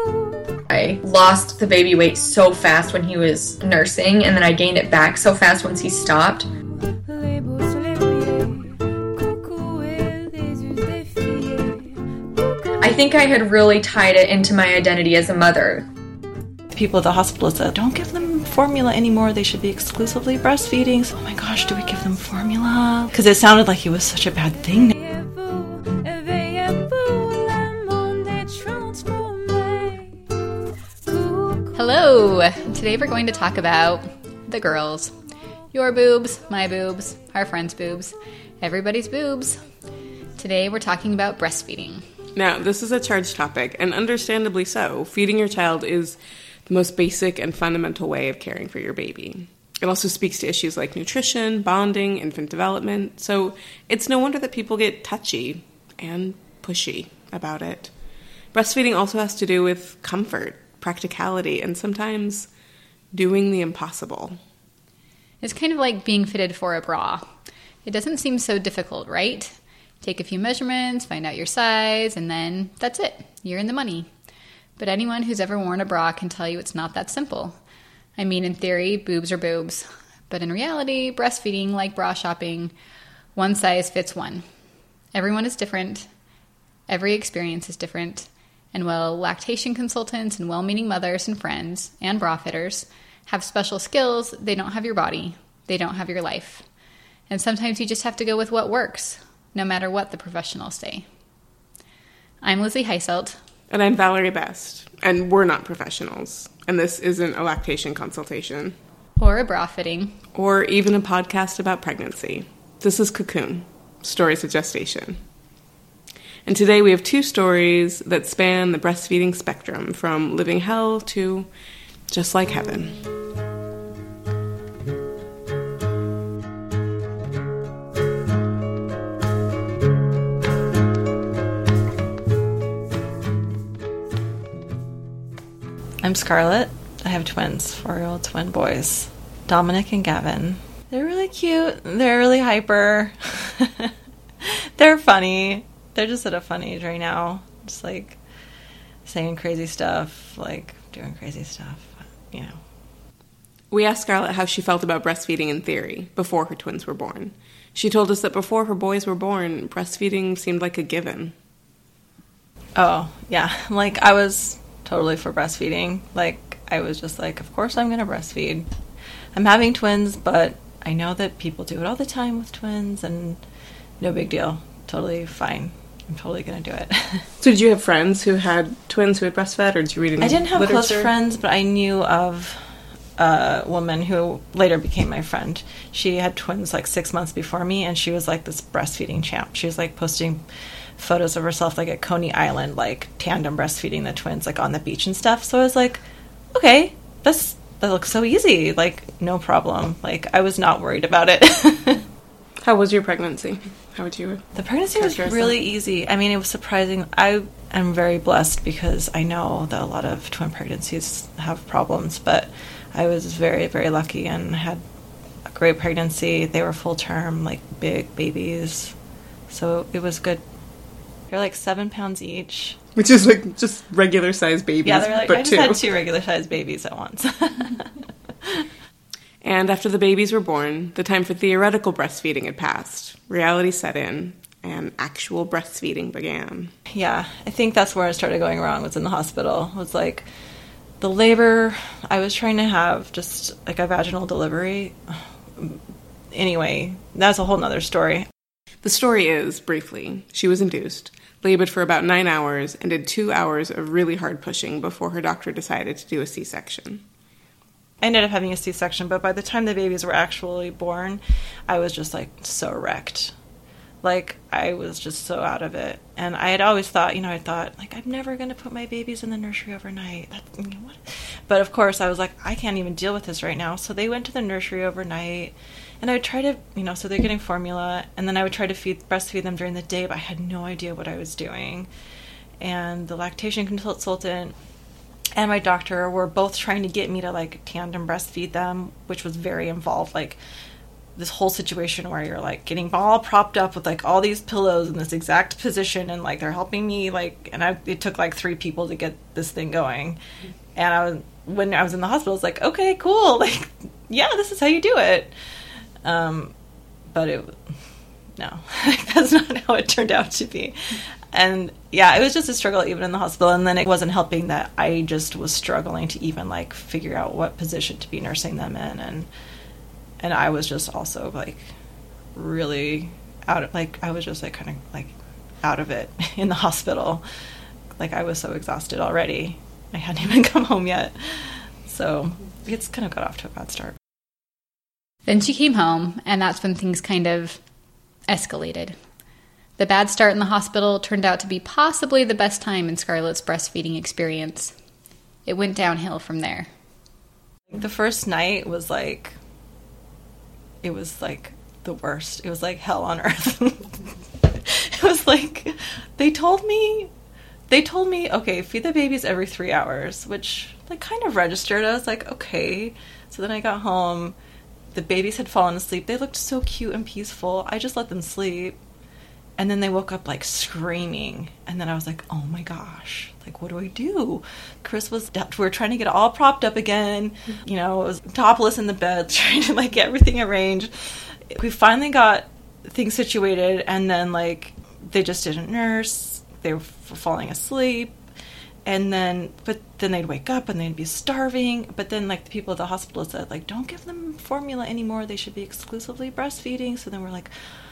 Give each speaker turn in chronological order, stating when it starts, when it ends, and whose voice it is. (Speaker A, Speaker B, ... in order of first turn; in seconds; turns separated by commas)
Speaker A: 0.6-6.5, Speaker A: 12.8-15.9, Speaker B: 16.7-25.1, Speaker C: 31.7-35.2, Speaker C: 35.7-39.6, Speaker C: 40.4-42.1, Speaker D: 42.4-57.9, Speaker D: 58.5-62.5, Speaker D: 63.1-64.4, Speaker C: 65.4-67.3, Speaker C: 67.8-74.1, Speaker C: 74.8-77.6, Speaker C: 78.2-82.7, Speaker C: 83.3-84.5, Speaker C: 85.1-86.1, Speaker C: 86.9-96.7, Speaker C: 97.3-101.1, Speaker C: 102.4-103.4, Speaker D: 103.7-108.8, Speaker C: 109.2-110.2, Speaker D: 110.3-115.2, Speaker D: 116.5-121.5, Speaker D: 122.1-123.0, Speaker B: 136.0-148.2, Speaker B: 149.1-152.6, Speaker D: 153.7-161.3, Speaker B: 162.8-168.7, Speaker B: 169.3-173.4, Speaker B: 174.0-177.3, Speaker D: 177.4-181.1, Speaker B: 180.2-182.6, Speaker B: 183.2-190.4, Speaker B: 191.0-196.0, Speaker B: 196.5-202.1, Speaker D: 202.6-205.6, Speaker B: 204.6-214.8, Speaker B: 215.4-218.9, Speaker B: 219.5-220.4, Speaker B: 221.3-222.8, Speaker D: 223.0-225.8, Speaker B: 224.8-227.9, Speaker D: 229.4-236.7, Speaker B: 236.9-240.3, Speaker B: 241.0-245.8, Speaker B: 246.3-248.3, Speaker D: 248.8-257.0, Speaker B: 258.0-263.3, Speaker B: 264.0-281.9, Speaker B: 282.6-284.6, Speaker B: 285.4-290.4, Speaker B: 291.2-300.2, Speaker B: 300.8-305.3, Speaker B: 306.0-306.5, Speaker B: 307.1-307.6, Speaker B: 308.4-319.3, Speaker B: 320.2-321.7, Speaker B: 322.4-327.2, Speaker B: 328.0-334.0, Speaker C: 335.3-337.6, Speaker C: 338.3-339.0, Speaker C: 339.8-344.7, Speaker C: 345.5-346.7, Speaker B: 347.7-349.4, Speaker B: 350.8-357.1, Speaker B: 357.7-364.4, Speaker B: 364.9-368.8, Speaker B: 369.6-388.1, Speaker B: 388.9-397.5